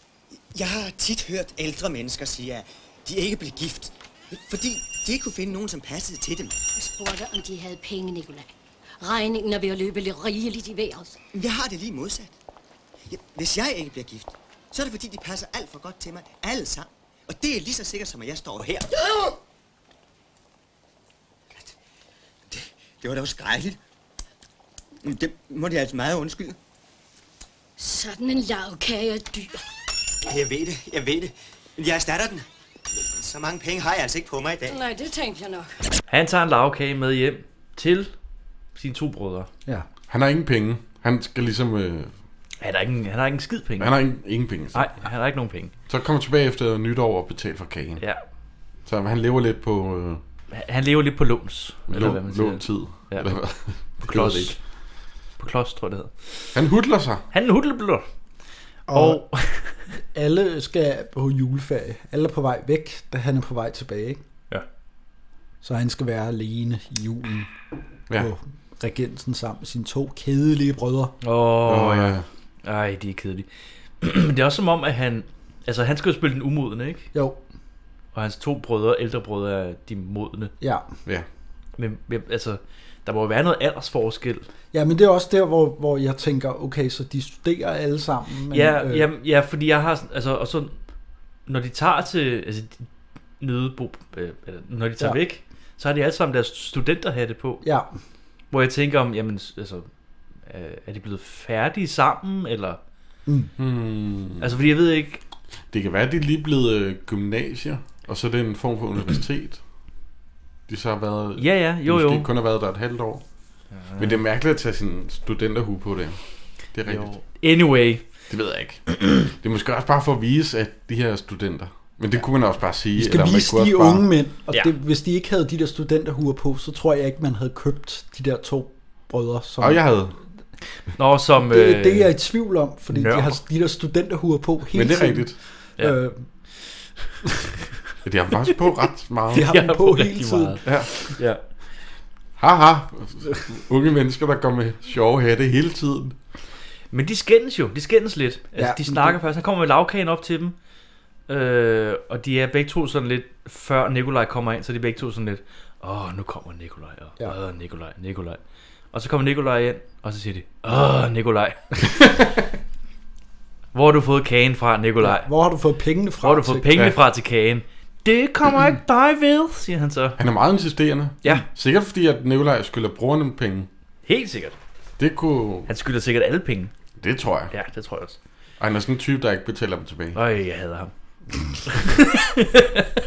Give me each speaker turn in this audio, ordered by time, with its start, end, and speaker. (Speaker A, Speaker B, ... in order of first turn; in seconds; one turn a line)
Speaker A: 0.5-6.5
Speaker B: 6.8-11.2
Speaker A: 11.3-12.3
Speaker A: 13.1-18.9
Speaker A: 22.5-23.8
Speaker A: 25.0-26.6
Speaker B: 27.8-29.6
Speaker A: 30.2-34.8
Speaker B: 34.6-35.7
Speaker C: 36.1-38.1
Speaker C: 38.8-39.5
Speaker D: 40.1-42.1
Speaker C: 42.6-44.0
Speaker D: 43.8-44.9
Speaker C: 44.7-45.7
Speaker D: 45.9-48.0
Speaker D: 48.9-50.2
Speaker C: 50.5-53.3
Speaker D: 51.9-54.6
Speaker C: 54.0-54.6
Speaker C: 55.4-56.5
Speaker D: 56.5-57.2
Speaker C: 57.3-58.0
Speaker E: 58.9-59.2
Speaker C: 58.9-59.8
Speaker E: 60.0-64.2
Speaker E: 65.6-67.5
Speaker E: 68.2-71.2
Speaker C: 71.2-73.5
Speaker D: 71.7-72.3
Speaker C: 74.0-77.1
Speaker E: 77.1-77.4
Speaker C: 78.1-80.5
Speaker E: 80.6-80.9
Speaker C: 81.8-84.5
Speaker E: 84.7-89.1
Speaker C: 88.5-90.8
Speaker C: 91.5-92.9
Speaker C: 93.4-97.6
Speaker E: 97.6-97.9
Speaker C: 98.5-99.9
Speaker C: 100.5-102.8
Speaker E: 103.3-103.5
Speaker D: 103.6-104.5
Speaker C: 104.4-105.2
Speaker D: 105.7-109.6
Speaker D: 110.7-113.2
Speaker C: 111.4-112.3
Speaker C: 113.7-114.2
Speaker D: 114.0-116.2
Speaker D: 116.7-117.1
Speaker C: 116.8-118.0
Speaker D: 118.3-124.0
Speaker E: 123.0-129.9
Speaker D: 129.6-130.2
Speaker C: 131.0-132.1
Speaker E: 131.5-136.3
Speaker C: 132.9-133.4
Speaker D: 134.7-135.4
Speaker D: 138.0-139.5
Speaker E: 139.3-140.7
Speaker C: 139.3-141.4
Speaker D: 140.7-140.9
Speaker D: 142.4-146.2
Speaker C: 146.9-150.6
Speaker E: 148.6-149.2
Speaker C: 151.3-158.4
Speaker C: 158.9-161.8
Speaker C: 163.7-165.3
Speaker E: 165.0-166.9
Speaker C: 166.2-170.2
Speaker D: 170.2-173.7
Speaker C: 174.1-174.6
Speaker D: 175.0-175.7
Speaker C: 175.7-176.7
Speaker D: 177.0-177.5
Speaker C: 177.5-178.2
Speaker D: 178.6-180.2
Speaker C: 180.1-180.9
Speaker C: 181.6-182.9